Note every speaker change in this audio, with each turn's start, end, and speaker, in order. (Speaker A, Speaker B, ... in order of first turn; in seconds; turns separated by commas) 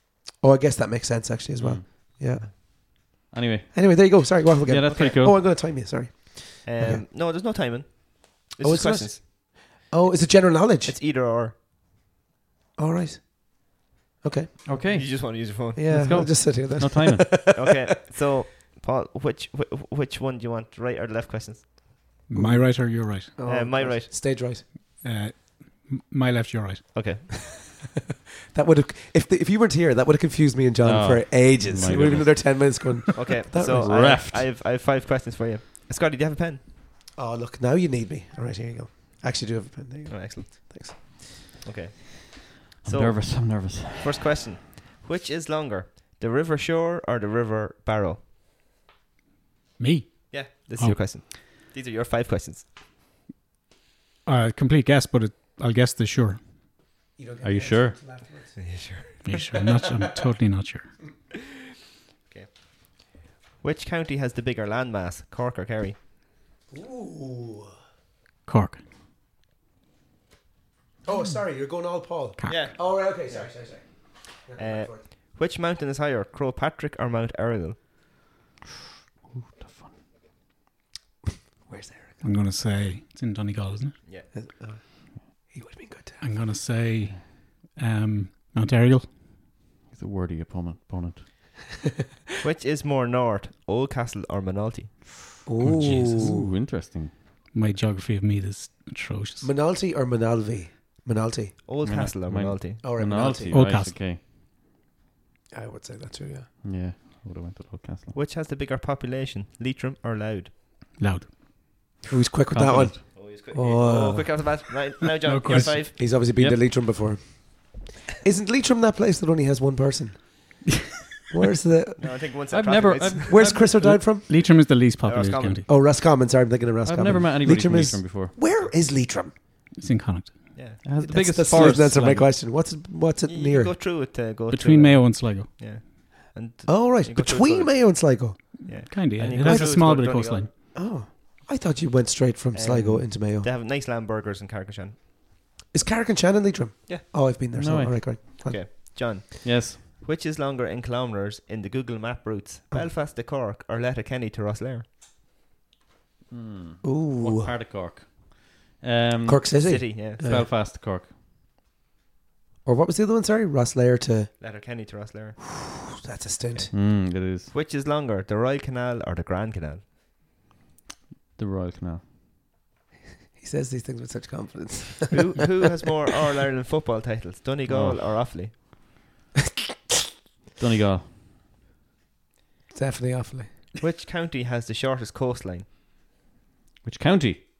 Speaker A: 0.4-3.2, Speaker B: 1.6-1.9, Speaker B: 3.3-5.4, Speaker A: 3.7-7.0, Speaker C: 4.9-5.2, Speaker C: 6.6-9.2, Speaker A: 8.6-10.9, Speaker C: 10.8-11.6, Speaker A: 12.8-14.6, Speaker B: 14.7-17.4, Speaker C: 14.8-15.8, Speaker A: 15.7-17.9, Speaker C: 17.6-22.0, Speaker D: 22.3-23.3, Speaker A: 22.3-24.6, Speaker C: 23.5-24.1, Speaker D: 25.0-26.8, Speaker C: 26.9-27.3, Speaker A: 28.5-34.1, Speaker B: 30.8-32.8, Speaker C: 33.1-36.6, Speaker B: 33.6-34.5, Speaker A: 37.2-41.5, Speaker C: 40.1-42.3, Speaker B: 42.8-44.1, Speaker C: 42.9-48.2, Speaker D: 49.8-51.0, Speaker C: 50.3-52.7, Speaker D: 54.3-56.4, Speaker A: 57.2-59.3, Speaker B: 57.4-58.0, Speaker C: 58.6-59.2, Speaker D: 59.2-60.9, Speaker C: 63.6-66.0, Speaker A: 66.7-67.7, Speaker D: 68.5-68.8, Speaker A: 71.0-75.0, Speaker D: 72.4-72.7, Speaker C: 72.5-73.7, Speaker C: 74.6-77.8, Speaker B: 79.3-80.0, Speaker A: 81.7-82.2, Speaker D: 82.2-84.0, Speaker A: 84.3-86.2, Speaker D: 86.2-89.1, Speaker B: 89.9-91.3, Speaker C: 92.4-95.0, Speaker A: 95.5-96.5, Speaker D: 95.6-96.3, Speaker B: 95.6-97.1, Speaker D: 97.5-99.5, Speaker A: 99.4-101.6, Speaker C: 101.7-102.8, Speaker B: 101.8-104.2, Speaker A: 102.8-103.7, Speaker D: 103.5-104.0, Speaker A: 105.5-106.5, Speaker B: 106.6-108.2, Speaker C: 108.1-110.5, Speaker D: 111.0-111.3, Speaker A: 112.0-114.7, Speaker B: 112.5-113.0, Speaker C: 113.2-116.0, Speaker D: 115.2-115.8, Speaker A: 115.6-120.6, Speaker A: 121.3-122.2, Speaker C: 122.0-123.7, Speaker B: 122.5-124.0, Speaker A: 123.3-124.3, Speaker D: 124.3-125.7, Speaker C: 124.3-125.7, Speaker A: 125.7-129.3, Speaker B: 126.8-128.3, Speaker D: 129.8-130.6, Speaker C: 130.6-130.8, Speaker B: 130.8-132.1, Speaker A: 131.0-133.8, Speaker D: 131.6-132.3, Speaker C: 133.3-140.5, Speaker D: 134.5-135.5, Speaker A: 136.7-138.9, Speaker D: 138.6-140.5, Speaker A: 139.4-140.0, Speaker A: 140.7-143.5, Speaker C: 142.5-145.0, Speaker A: 145.7-148.9, Speaker B: 147.6-148.5, Speaker C: 148.4-154.9, Speaker B: 149.4-149.8, Speaker B: 156.3-161.1, Speaker A: 156.8-157.5, Speaker A: 159.3-160.5, Speaker C: 159.6-160.2, Speaker A: 162.7-164.3, Speaker C: 164.4-165.4, Speaker A: 166.0-166.7, Speaker B: 166.7-167.5, Speaker C: 166.8-169.8, Speaker B: 171.4-172.1, Speaker A: 173.4-175.2, Speaker C: 175.1-178.6, Speaker B: 177.7-178.0, Speaker B: 180.6-181.1, Speaker A: 182.7-183.5, Speaker C: 183.8-185.7, Speaker B: 186.8-187.4